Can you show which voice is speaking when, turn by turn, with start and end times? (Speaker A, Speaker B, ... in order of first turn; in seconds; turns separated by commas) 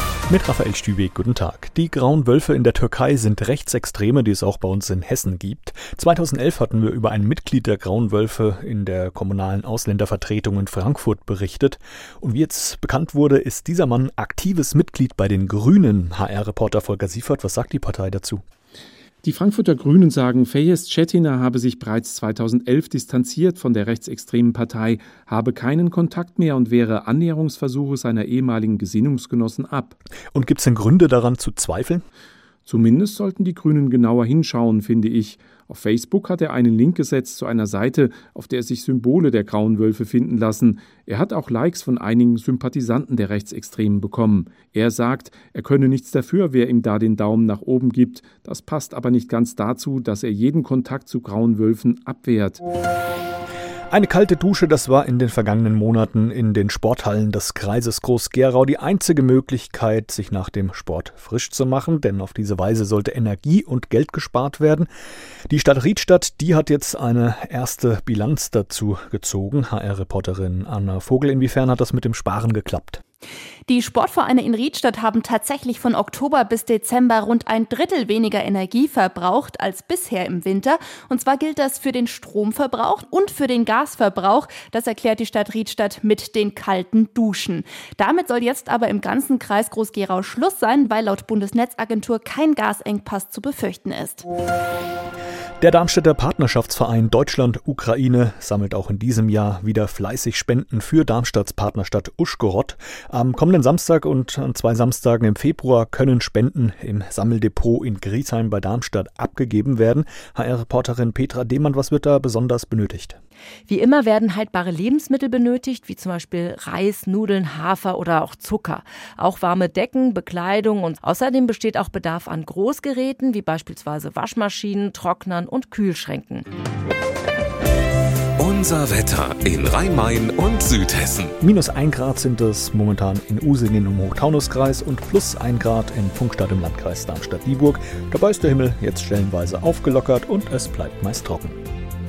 Speaker A: 0.3-18.4, Speaker B: 19.2-30.0, Speaker A: 30.3-32.0, Speaker B: 32.7-52.6, Speaker A: 53.9-64.9, Speaker A: 65.5-73.0, Speaker C: 73.7-94.2, Speaker A: 95.6-113.2, Speaker D: 113.7-126.4, Speaker E: 128.4-131.3, Speaker A: 131.4-141.6